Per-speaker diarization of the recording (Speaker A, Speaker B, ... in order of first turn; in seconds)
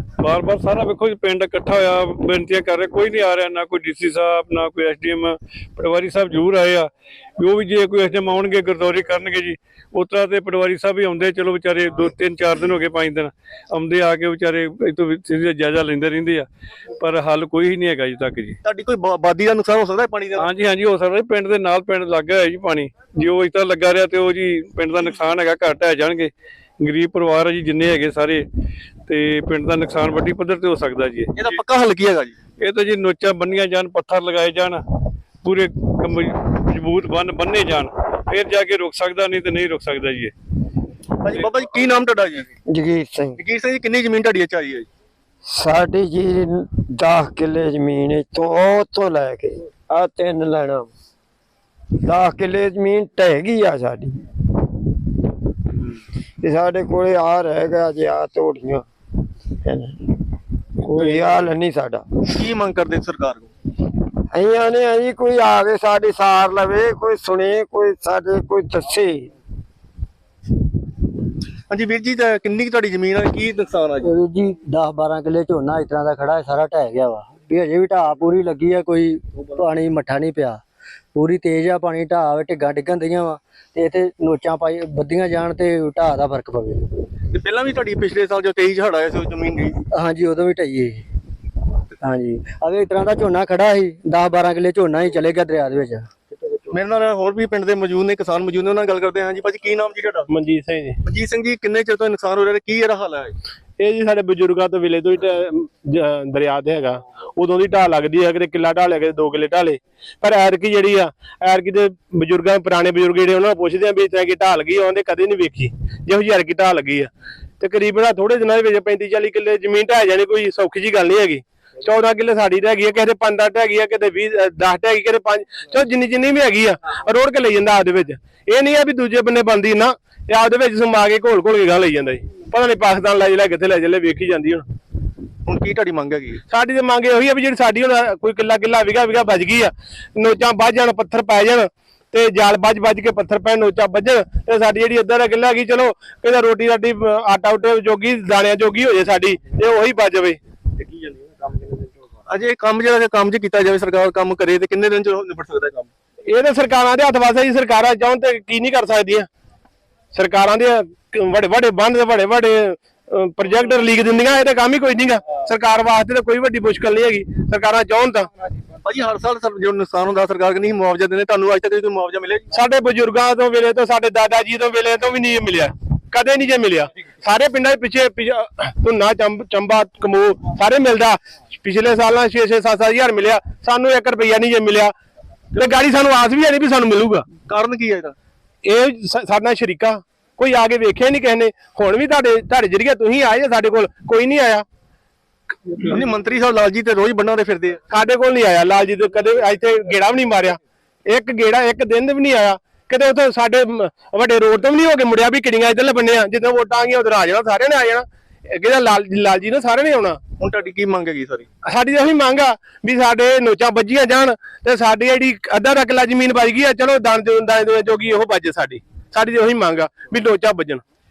Speaker A: 0.2-16.5, 17.0-18.6, 20.3-28.4, 29.1-31.6, 32.6-34.8, 35.4-40.3, 61.0-61.2
Speaker B: 18.6-20.5, 31.4-32.3, 41.2-42.5, 43.4-44.9, 62.3-63.5, 71.7-74.1, 87.3-89.8, 96.7-100.3, 101.0-103.3, 135.5-136.4, 152.3-155.9, 168.8-172.4, 187.4-188.1, 195.8-197.8, 210.4-211.5
Speaker C: 42.6-43.4, 45.5-50.9, 52.0-54.3, 56.4-58.9, 59.6-60.2, 60.8-62.0, 64.3-69.3
Speaker D: 74.0-80.6, 81.2-86.9, 89.9-91.0, 92.0-96.1
Speaker E: 100.3-101.0, 103.8-117.1, 117.6-134.6, 136.5-150.4, 156.3-159.3, 160.1-168.3, 172.5-184.9, 185.6-187.3, 188.6-194.6, 197.9-210.2, 211.6-220.8